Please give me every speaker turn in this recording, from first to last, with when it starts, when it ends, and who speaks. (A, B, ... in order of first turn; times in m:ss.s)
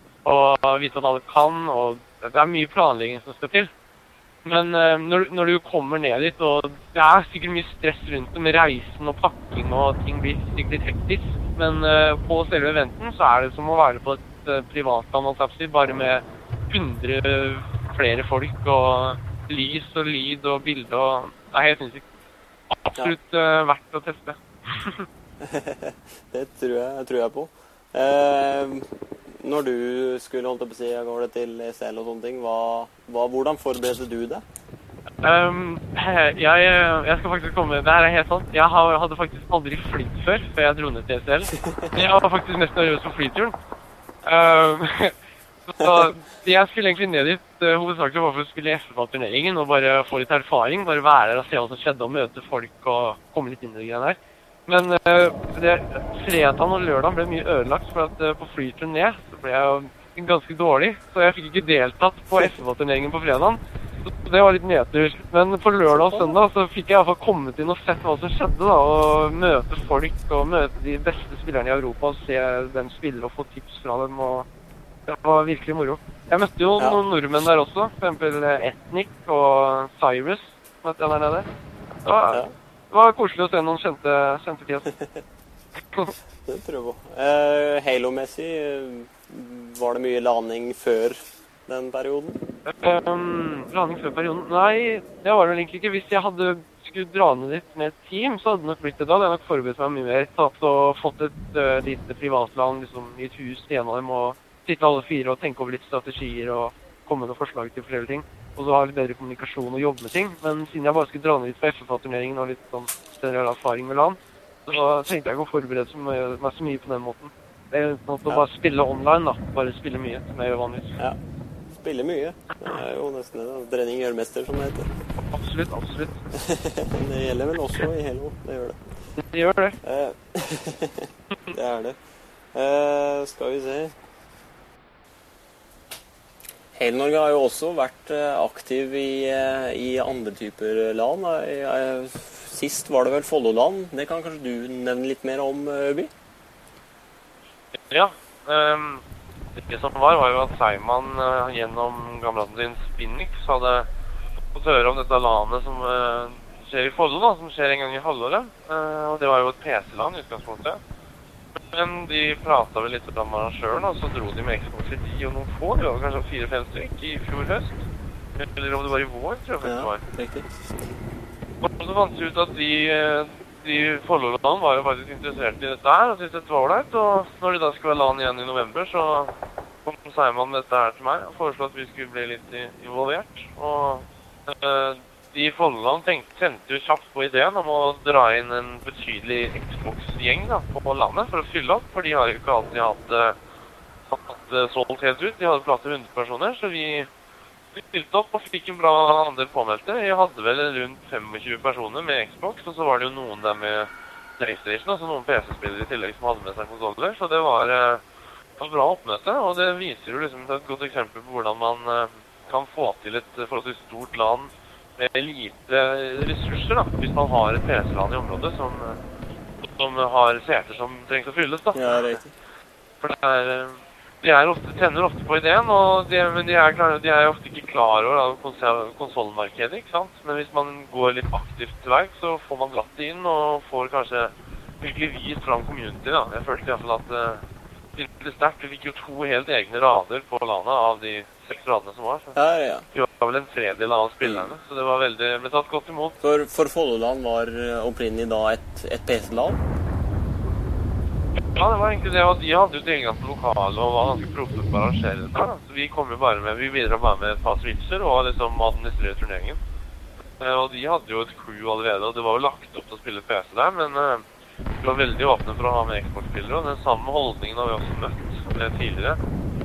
0:00.2-0:03.7 A
0:04.4-0:22.1 A
0:22.7-0:25.1 A
0:25.4-0:34.4 B
0:35.2-0:43.6 A
0:41.6-0:41.9 B
0:44.2-0:45.2 A
0:45.7-1:14.5 A
0:45.8-0:46.1 B
1:05.9-1:06.4 B
1:15.1-1:21.5 A
1:22.0-1:24.9 A
1:26.5-1:32.4 B
1:32.7-2:01.0 A
2:01.8-2:04.9 B
2:05.3-2:06.2 A
2:06.3-2:08.8 B
2:09.2-2:09.8 A
2:09.8-2:12.0 B
2:12.5-2:14.0 B
2:16.7-2:26.1 B
2:27.8-2:29.0 C
2:29.6-2:33.9 C
2:34.5-2:40.8 C
2:41.7-2:47.9 C
2:48.4-2:50.0 C
2:49.6-2:50.5 B
2:51.6-2:59.3 C
2:59.8-3:13.4 C
3:14.1-3:17.1 C
3:17.7-3:28.0 C
3:28.6-3:39.0 C
3:39.6-3:42.1 C
3:41.7-3:42.3 B
3:43.0-3:57.4 C
3:58.0-4:02.4 C
4:02.4-4:02.8 B
4:02.9-4:06.2 C
4:06.2-4:09.6 B
4:11.4-4:19.6 C
4:20.4-4:24.2 C
4:24.8-4:29.2 C